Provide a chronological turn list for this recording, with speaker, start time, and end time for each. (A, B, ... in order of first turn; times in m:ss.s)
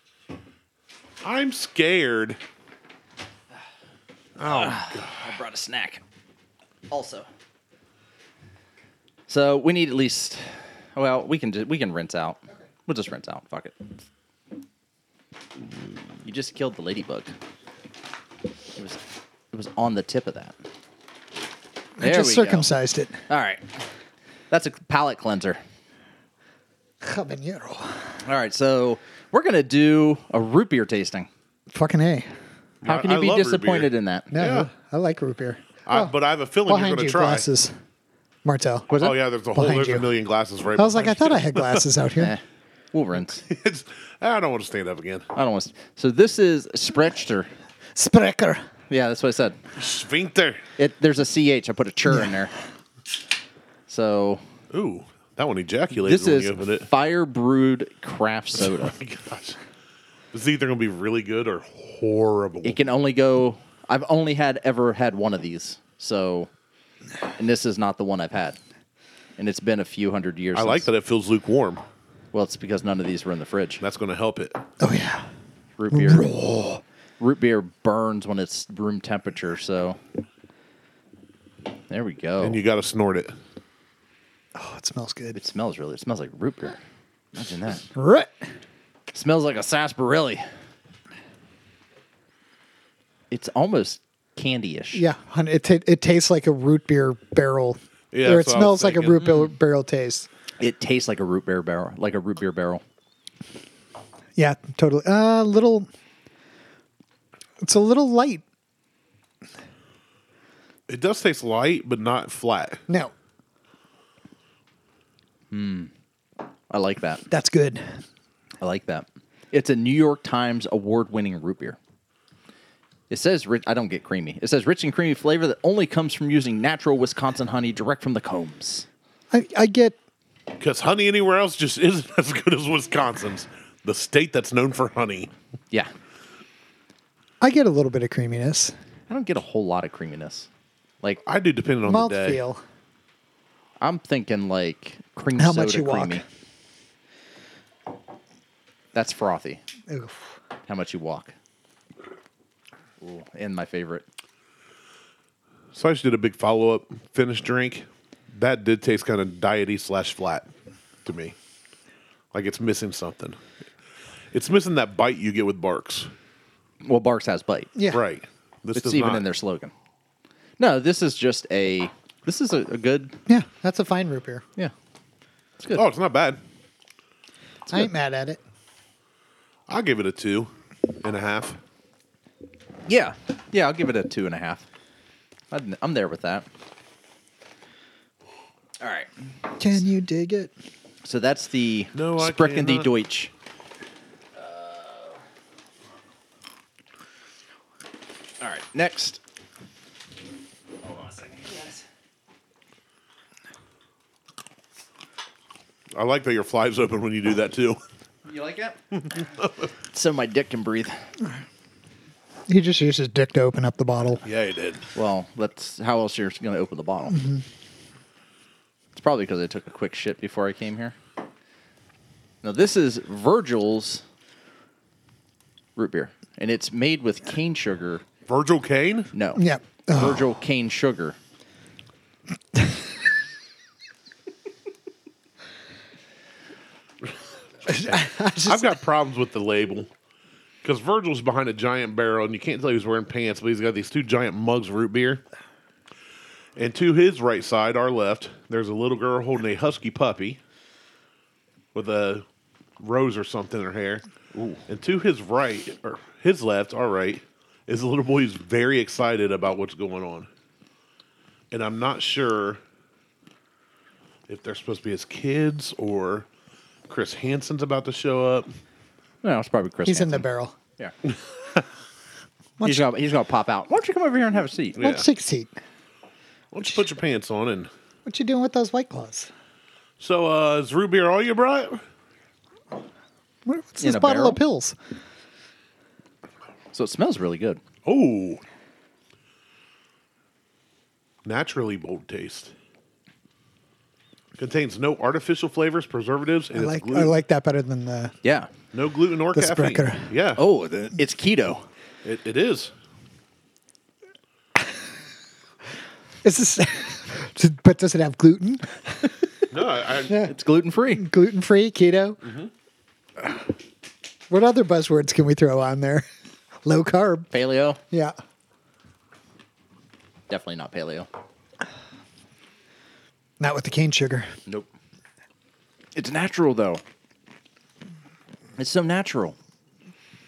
0:01.2-0:02.4 A
0:04.4-0:05.3 A
0:04.4-0:06.0 B
0:06.9-0:07.3 B
0:09.3-0:13.8 B
0:16.2-0:17.3 B
0:19.5-0:20.6 B
0:22.0-0:23.2 C
0:22.0-0:22.7 B
0:23.3-0:23.6 B
0:24.5-0:25.6 B
0:27.0-0:28.1 C
0:28.2-0:31.3 B
0:31.7-0:32.3 C
0:32.8-0:34.7 A
0:32.8-0:34.3 B
0:34.3-0:36.1 C
0:35.9-0:37.5 A
0:36.7-0:37.8 C
0:38.4-0:40.1 C
0:38.9-0:41.8 A
0:40.8-0:42.3 C
0:42.9-0:43.4 B
0:43.4-0:45.3 A
0:45.3-0:47.5 B
0:48.0-0:48.7 C
0:48.9-0:49.6 B
0:49.8-0:50.6 A
0:50.8-0:52.5 B
0:53.9-0:54.4 B
0:54.7-0:56.9 A
0:56.0-0:59.0 B
0:58.6-0:59.6 A
1:00.3-1:02.8 A
1:02.6-1:06.5 B
1:07.4-1:08.6 B
1:09.4-1:10.9 B
1:10.6-1:11.8 A
1:12.3-1:13.8 B
1:13.8-1:14.6 A
1:14.8-1:15.3 C
1:15.8-1:16.3 B
1:15.9-1:16.8 C
1:17.2-1:20.0 B
1:21.9-1:22.6 B
1:22.4-1:23.3 A
1:24.6-1:25.4 C
1:25.4-1:26.8 B
1:27.4-1:27.9 B
1:28.0-1:28.5 C
1:29.1-1:30.4 B
1:33.3-1:35.0 B
1:34.9-1:40.3 C
1:38.1-1:39.2 A
1:39.2-1:39.5 B
1:40.6-1:42.8 B
1:44.4-1:45.9 C
1:47.6-1:48.4 C
1:50.9-1:52.8 A
1:55.5-1:55.9 B
1:56.7-1:57.2 B
1:57.3-1:58.0 C
1:58.6-2:01.8 B
2:03.1-2:08.9 B
2:09.3-2:10.0 C
2:10.6-2:15.3 A
2:17.4-2:18.7 C
2:19.1-2:20.5 B
2:21.3-2:22.4 A
2:21.8-2:22.6 C
2:23.8-2:26.2 B
2:25.4-2:26.2 C
2:28.9-2:29.6 B
2:29.9-2:30.3 C
2:30.7-2:31.4 B
2:33.0-2:34.0 B
2:35.7-2:40.5 A
2:41.0-2:41.4 A
2:42.3-2:43.4 A
2:44.3-2:46.1 A
2:46.8-2:47.7 B
2:47.8-2:48.0 C
2:47.9-2:49.2 A
2:48.7-2:49.7 B
2:50.6-2:53.2 B
2:53.3-2:54.4 C
2:55.8-2:56.4 A
2:57.7-2:58.4 C
2:59.7-3:00.5 A
3:01.0-3:01.6 A
3:02.9-3:04.7 B
3:05.5-3:06.5 B
3:08.8-3:09.1 B
3:09.6-3:10.5 C
3:11.0-3:13.3 B
3:11.9-3:12.9 A
3:14.4-3:15.2 B
3:18.4-3:19.2 B
3:20.8-3:21.8 B
3:26.0-3:27.8 A
3:28.2-3:28.8 B
3:29.2-3:29.7 A
3:29.9-3:31.0 B
3:32.5-3:34.2 C
3:34.2-3:34.8 A
3:35.0-3:37.3 B
3:38.9-3:41.0 B
3:42.4-3:44.0 B
3:45.8-3:48.0 B
3:48.3-3:49.1 A
3:49.1-3:51.2 B
3:49.4-3:50.3 C
3:57.7-3:58.7 C
3:57.7-3:59.9 A
4:00.6-4:05.2 A
4:06.6-4:10.4 A
4:11.8-4:12.3 A
4:12.8-4:14.0 A
4:14.7-4:20.3 A
4:21.5-4:22.6 A
4:24.3-4:26.3 A
4:26.9-4:28.5 A
4:29.2-4:30.3 B
4:29.9-4:30.6 C
4:32.6-4:32.8 C
4:32.6-4:34.8 B
4:34.8-4:35.5 C
4:34.8-4:35.1 A
4:36.5-4:37.7 A
4:38.1-4:39.3 C
4:40.0-4:41.8 A
4:43.5-4:44.8 C
4:43.8-4:44.4 B
4:46.7-4:47.6 B
4:47.8-4:48.4 A
4:51.2-4:52.5 A
4:54.4-4:57.2 A
4:56.5-4:58.1 C
4:58.2-4:58.5 B
4:58.7-5:00.4 A
4:59.3-5:00.1 C
5:00.4-5:01.7 B
5:02.0-5:02.7 A
5:06.2-5:09.2 C
5:09.5-5:10.3 A
5:10.1-5:10.3 C
5:10.2-5:11.1 B
5:11.0-5:12.2 C
5:12.2-5:12.5 A
5:14.3-5:16.1 C
5:16.6-5:17.3 C
5:17.3-5:17.8 B
5:17.9-5:18.2 C
5:20.3-5:21.1 B
5:23.4-5:24.3 C
5:26.0-5:26.8 B
5:28.6-5:29.4 B